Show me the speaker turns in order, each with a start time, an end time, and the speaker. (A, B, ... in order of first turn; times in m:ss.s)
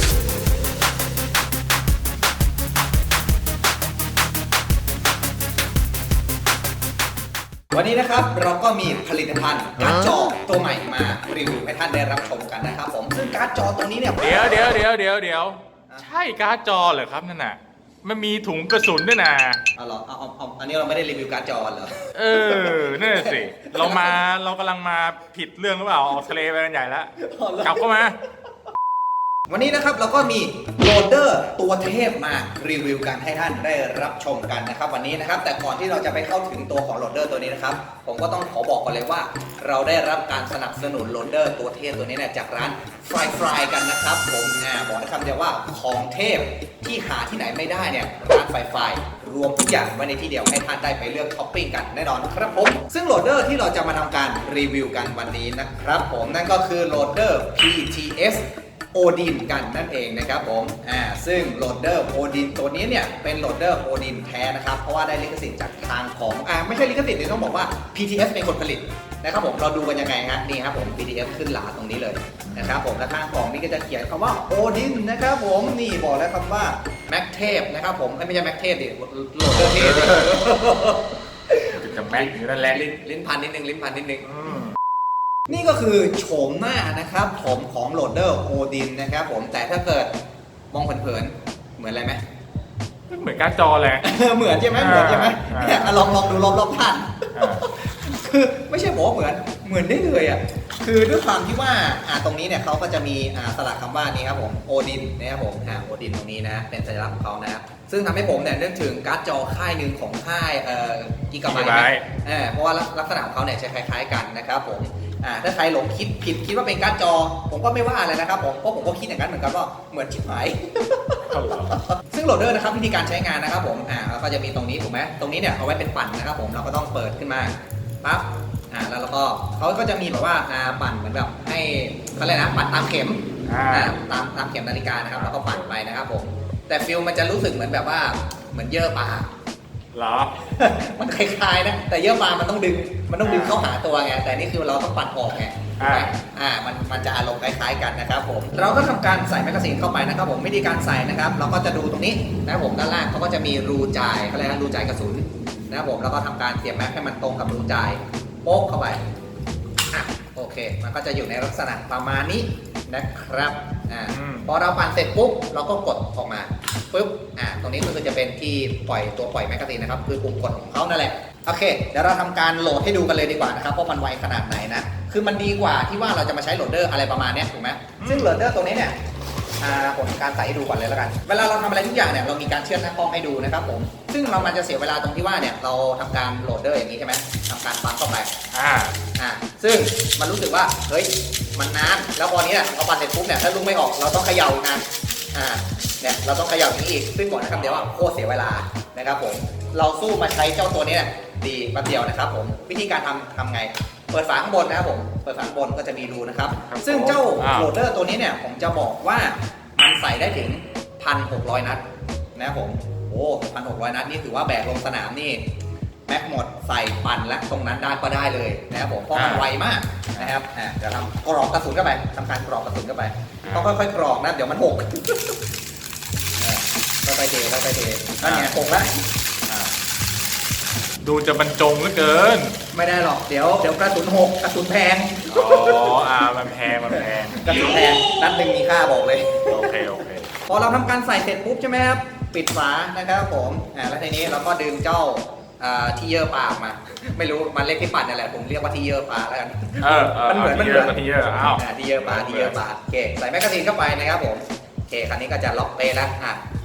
0:07.7-0:14.7 A
0:14.2-0:19.6 B
0:19.8-0:24.2 A
0:22.2-0:28.2 B
0:27.2-0:27.8 A
0:29.5-1:24.3 A
1:12.5-1:12.8 B
1:19.5-1:20.5 B
1:21.7-1:22.8 B
1:24.2-1:24.8 B
1:25.5-1:30.1 A
1:30.7-1:32.2 A
1:33.1-1:34.1 B
1:34.0-2:19.3 A
1:34.7-1:36.1 B
1:37.3-1:37.6 B
1:51.5-1:52.0 B
2:01.3-2:01.8 B
2:13.4-2:14.0 B
2:15.2-2:15.7 B
2:19.9-2:20.3 B
2:20.4-2:39.0 A
2:23.2-2:23.7 B
2:25.8-2:26.1 B
2:39.9-2:59.0 A
2:44.1-2:44.5 B
2:58.0-2:58.4 B
2:59.6-3:08.3 A
3:08.5-3:09.0 B
3:09.2-3:31.8 A
3:17.6-3:17.9 B
3:26.6-3:27.7 B
3:32.4-3:35.4 A
3:36.1-3:45.4 A
3:39.1-3:39.5 B
3:43.4-3:43.8 B
3:46.4-3:49.0 A
3:48.2-3:48.5 B
3:49.5-3:49.7 B
3:51.0-3:52.6 B
3:52.7-3:55.9 A
3:55.3-3:57.8 B
3:56.9-3:59.6 A
3:59.5-4:00.3 B
4:00.5-4:16.4 A
4:09.8-4:12.6 B